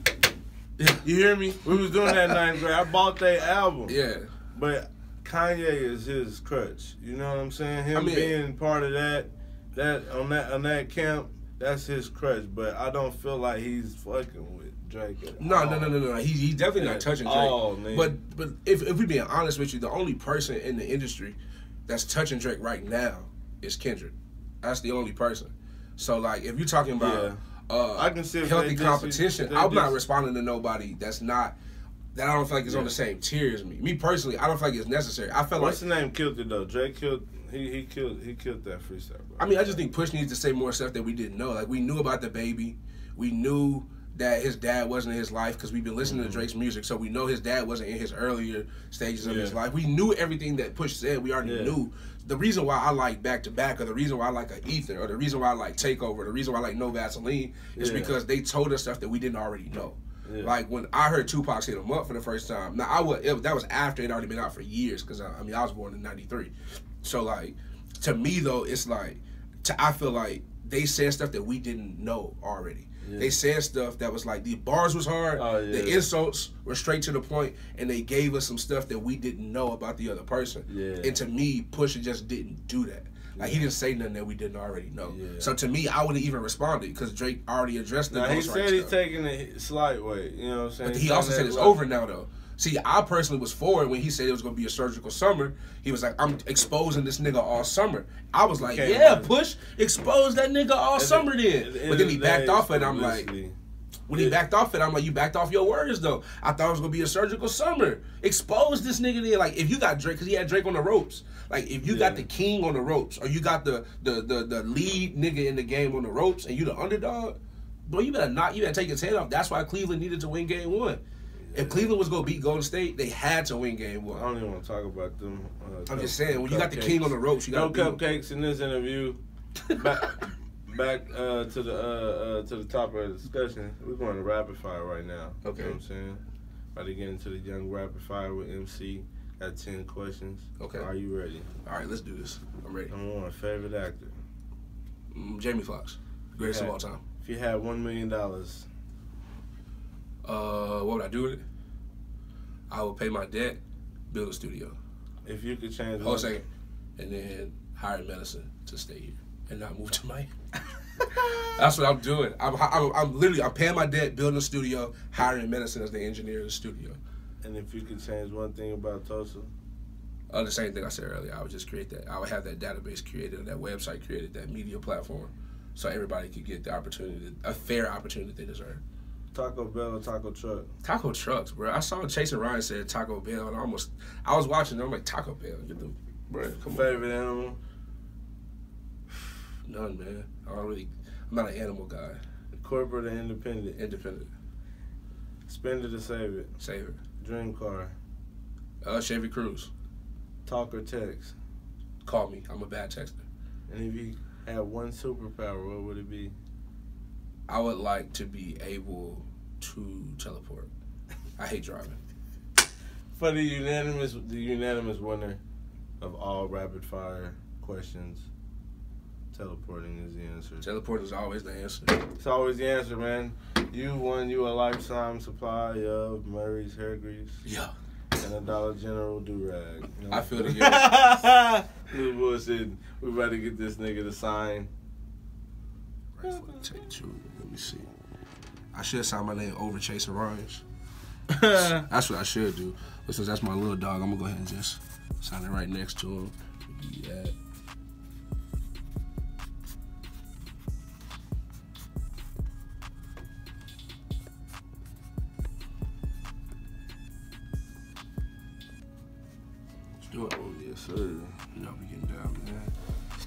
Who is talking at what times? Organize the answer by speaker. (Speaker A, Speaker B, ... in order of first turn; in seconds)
Speaker A: 0.8-4.0, 4.5-16.0, 16.8-18.1, 27.0-27.4, 27.9-30.0, 32.6-32.9, 35.5-39.8, 46.0-46.5, 49.2-49.6, 51.4-51.8, 57.7-58.2, 60.2-60.5, 73.0-73.3, 75.3-76.1, 80.7-81.2, 83.3-83.7, 85.0-85.5, 88.1-91.8, 98.6-99.3, 101.0-103.5, 111.8-112.2, 121.5-121.9, 124.1-129.2, 129.7-136.2, 136.7-141.5, 142.9-144.2, 146.4-148.7, 155.2-156.4, 167.4-169.5, 179.3-180.7, 186.4-187.6, 192.5-193.8, 195.5-196.5, 197.2-197.9, 200.4-201.3, 203.7-206.3, 213.2-215.4, 216.0-218.3, 219.3-220.7, 222.2-227.4, 228.2-234.7, 241.3-241.8, 260.1-261.5
Speaker B: 3.9-4.3, 7.9-8.4, 15.4-31.6, 32.1-35.8, 39.4-88.9, 90.8-103.3, 104.1-121.0, 121.5-124.3, 125.9-128.0, 135.4-135.8, 140.6-140.9, 141.6-142.9, 145.1-147.0, 150.2-151.4, 152.7-153.6, 154.1-154.8, 156.0-156.4, 157.0-160.3, 161.0-167.0, 170.3-178.8, 180.8-187.0, 189.7-192.2, 193.8-194.3, 196.6-197.0, 198.8-199.7, 202.0-203.2, 207.5-210.7, 211.4-212.0, 220.6-222.0, 227.4-227.7, 230.1-230.9, 236.1-237.9, 238.7-240.6, 241.5-247.3, 260.1-260.4, 261.5-262.7